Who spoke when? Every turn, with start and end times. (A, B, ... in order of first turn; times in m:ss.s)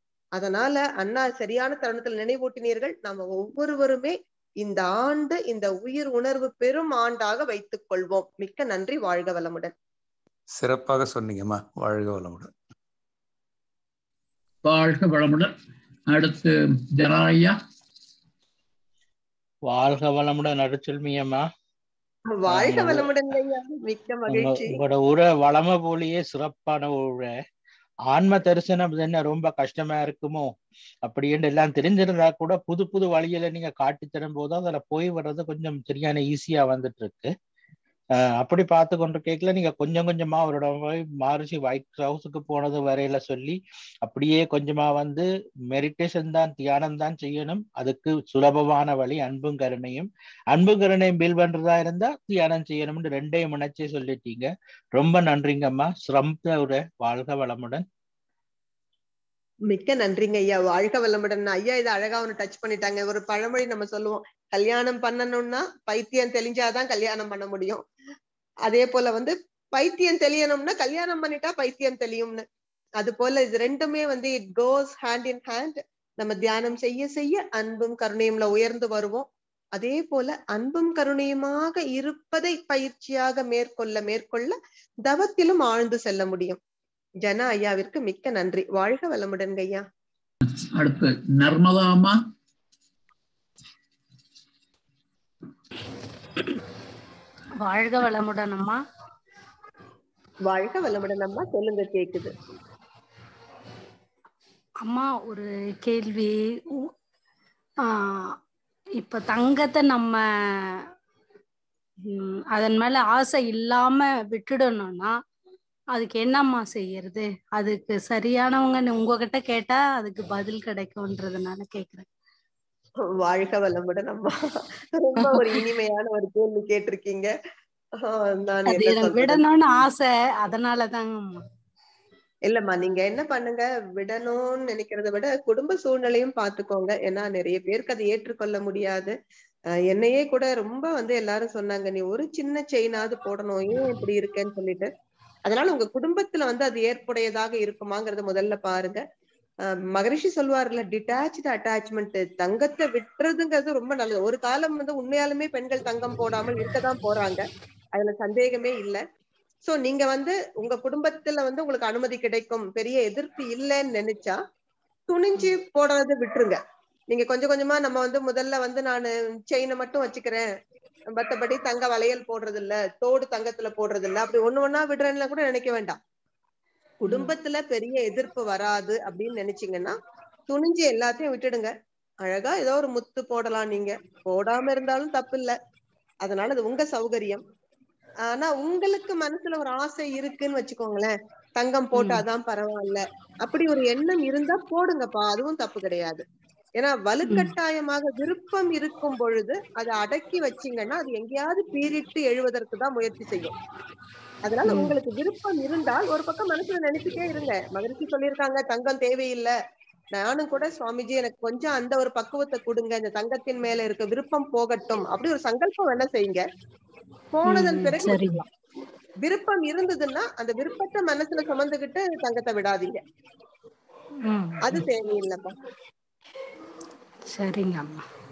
0:00.4-0:09.7 A
0:10.5-0:12.5 B
0:14.6-0:15.5 C
0:16.1-0:17.6 C
0:19.7-0:21.4 D
0:22.3-0:24.8 A
0:22.5-0:23.1 D
0:24.3-0:27.4 D
0:28.1-0:30.5 D
0:31.1-0:37.3 D
0:38.2-0:57.8 D
0:59.7-1:07.8 A
1:08.7-1:12.4 A
1:13.0-1:26.6 A
1:27.2-1:29.8 A
1:30.6-1:32.2 C
1:37.6-1:38.8 E
1:40.5-1:42.3 A
1:44.8-1:46.9 E
1:47.9-1:48.3 E
1:49.0-1:50.2 E
1:52.1-1:55.2 E
1:55.9-2:02.0 E
2:03.2-2:07.3 A
2:05.2-2:05.7 E
2:08.0-2:09.4 A
2:08.7-2:11.4 E
2:12.5-2:19.1 A
2:19.9-2:24.9 A
2:25.4-2:29.0 A
2:29.9-2:37.4 A
2:37.9-2:39.0 A
2:39.6-2:44.4 A
2:45.1-2:46.6 A
2:47.1-2:50.4 A
2:51.1-2:56.0 A
2:57.0-3:00.0 A
2:57.1-2:57.3 E
3:00.5-3:01.7 A
3:02.2-3:05.5 A
3:06.2-3:07.4 A
3:08.3-3:16.2 A
3:12.0-3:12.2 E
3:16.8-3:23.5 A
3:17.2-3:17.5 E
3:24.4-3:29.5 A
3:24.6-3:25.0 E
3:30.1-3:36.4 A
3:37.3-3:38.4 A
3:37.4-3:38.4 E
3:39.2-3:43.0 A
3:44.3-3:44.8 E
3:44.6-3:45.6 A
3:47.3-3:48.0 E